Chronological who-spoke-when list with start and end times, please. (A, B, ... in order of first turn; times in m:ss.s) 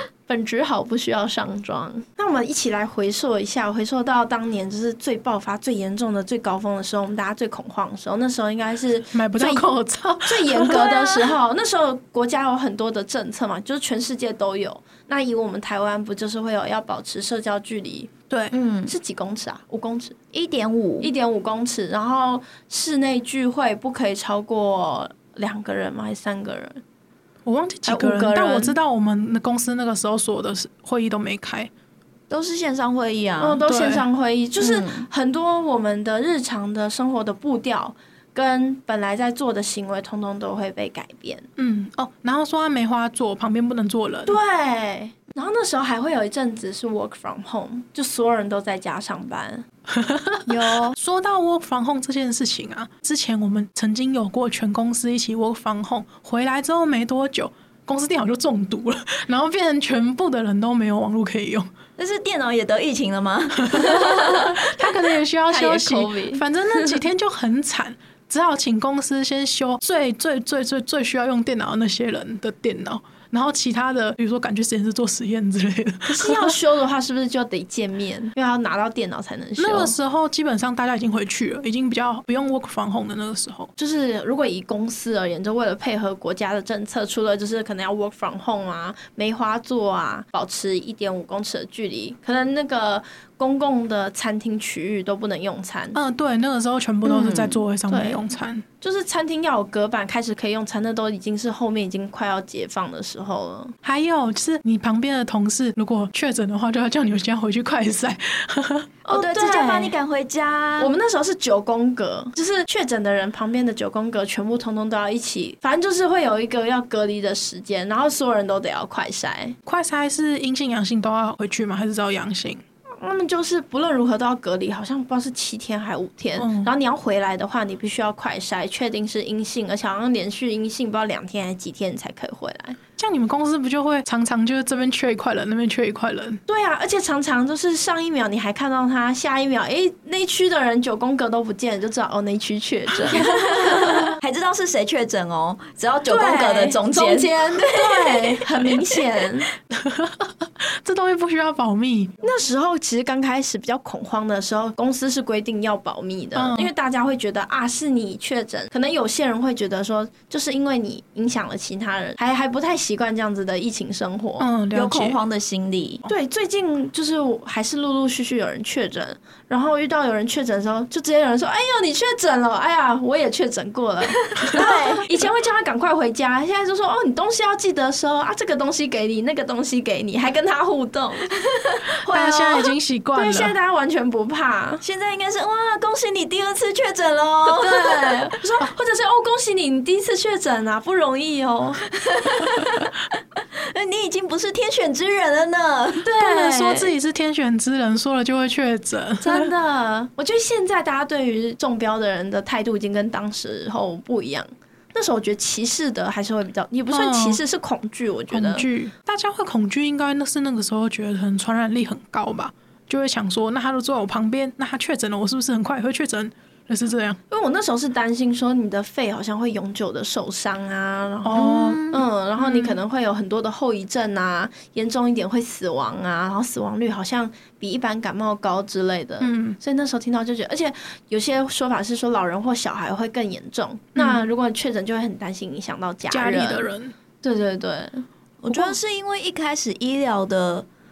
0:00.3-0:18.1 A
0:09.1-0:10.9 B
0:18.3-0:18.6 B
0:18.5-0:18.9 C
0:18.9-0:20.2 A
0:20.3-0:21.1 C
0:21.0-0:26.8 A
0:27.5-0:31.7 B
0:27.8-0:28.8 A
0:32.3-0:33.6 C
0:33.4-0:41.5 A
0:33.7-0:34.1 B
0:34.6-0:35.1 C
0:41.6-0:44.4 B
0:44.3-0:49.7 A
0:49.9-1:01.7 B
0:50.5-0:51.0 C
1:02.0-1:04.0 C
1:03.6-1:16.6 B
1:03.9-1:04.4 A
1:05.5-1:07.0 A
1:16.1-1:20.0 A
1:19.6-1:23.7 B
1:23.8-1:36.0 A
1:36.0-1:38.6 B
1:37.0-1:37.6 C
1:37.9-1:38.2 A
1:38.8-1:43.7 A
1:43.8-1:48.9 B
1:49.0-1:50.0 A
1:49.1-1:50.9 C
1:50.8-1:59.6 A
1:59.7-2:02.6 B
2:03.0-2:12.8 A
2:06.4-2:06.7 B
2:13.0-2:16.4 B
2:16.5-2:24.1 A
2:23.1-2:28.5 C
2:26.1-2:29.5 A
2:29.7-2:32.1 B
2:32.2-2:44.5 A
2:36.4-2:36.7 B
2:44.4-2:45.2 B
2:44.7-2:46.0 C
2:46.0-3:01.3 A
2:54.3-2:55.1 C
3:01.4-3:01.8 C
3:02.1-3:04.8 A
3:02.1-3:03.6 B
3:04.8-3:08.4 C
3:07.4-3:11.8 A
3:12.0-3:16.1 C
3:16.0-3:16.9 A
3:16.2-3:19.5 B
3:19.2-3:28.7 A
3:26.9-3:27.4 B
3:28.3-3:37.2 B
3:37.3-3:56.7 A
3:41.2-3:41.8 B
3:41.4-3:42.0 C
3:42.4-3:42.8 B
3:49.2-3:49.6 B
3:54.0-3:54.2 B
3:56.1-3:56.9 B
3:57.2-3:58.1 A
3:58.4-4:00.7 C